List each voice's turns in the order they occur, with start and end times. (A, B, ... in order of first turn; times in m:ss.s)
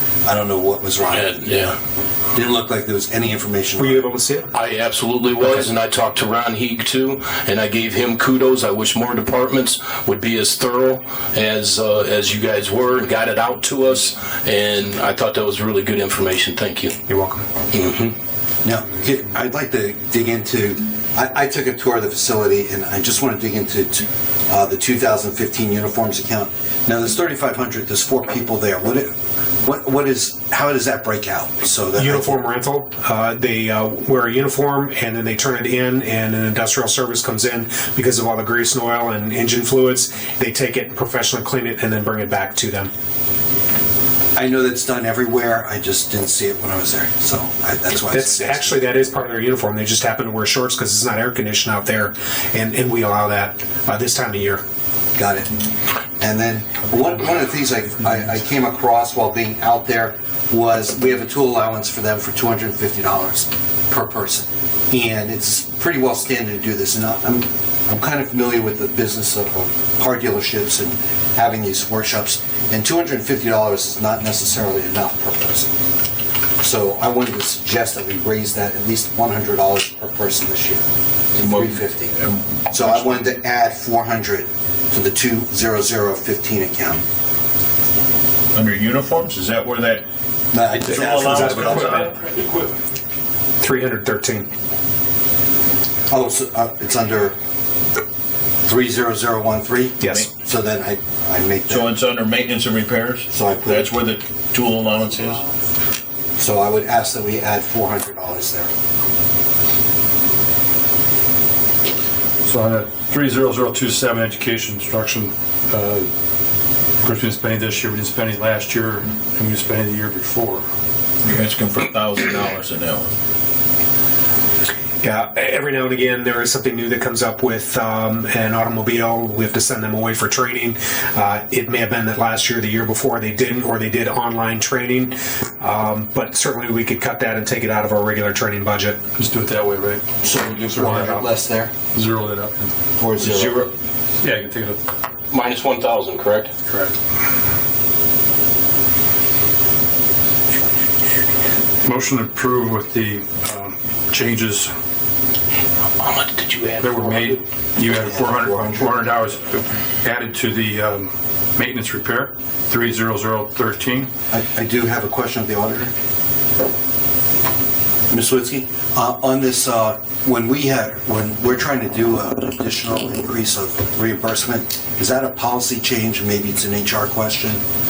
0:00.2-0:01.6 A
0:01.1-0:01.8 B
0:02.3-0:04.0 A
0:03.8-0:04.5 C
0:04.5-0:17.0 B
0:17.1-0:17.4 C
0:17.7-0:18.1 B
0:18.6-0:29.1 A
0:29.6-0:32.4 A
0:32.0-0:42.9 C
0:44.4-0:48.8 A
0:48.0-0:54.6 C
0:55.2-0:55.5 A
0:56.2-1:15.7 A
1:16.6-1:22.1 A
1:21.4-1:23.3 D
1:22.7-1:27.0 A
1:28.5-1:30.0 D
1:30.5-1:32.0 A
1:30.9-1:32.1 C
1:30.9-1:32.1 D
1:32.2-1:32.7 E
1:33.6-1:34.5 C
1:36.1-1:37.4 A
1:38.6-1:41.9 A
1:40.0-1:40.3 C
1:41.7-1:45.4 D
1:43.3-1:43.9 A
1:46.4-1:48.7 A
1:52.4-1:56.1 E
1:57.0-2:00.6 E
2:01.2-2:03.1 D
2:05.0-2:19.0 C
2:19.2-2:20.0 E
2:20.2-2:21.7 A
2:20.7-2:21.2 E
2:21.9-2:22.7 E
2:23.0-2:23.6 A
2:23.2-2:23.7 D
2:24.2-2:24.8 E
2:25.3-2:26.5 B
2:31.8-2:34.7 E
2:36.0-2:37.4 B
2:36.8-2:44.1 E
2:37.9-2:39.0 A
2:44.3-2:45.9 A
2:48.1-2:57.6 A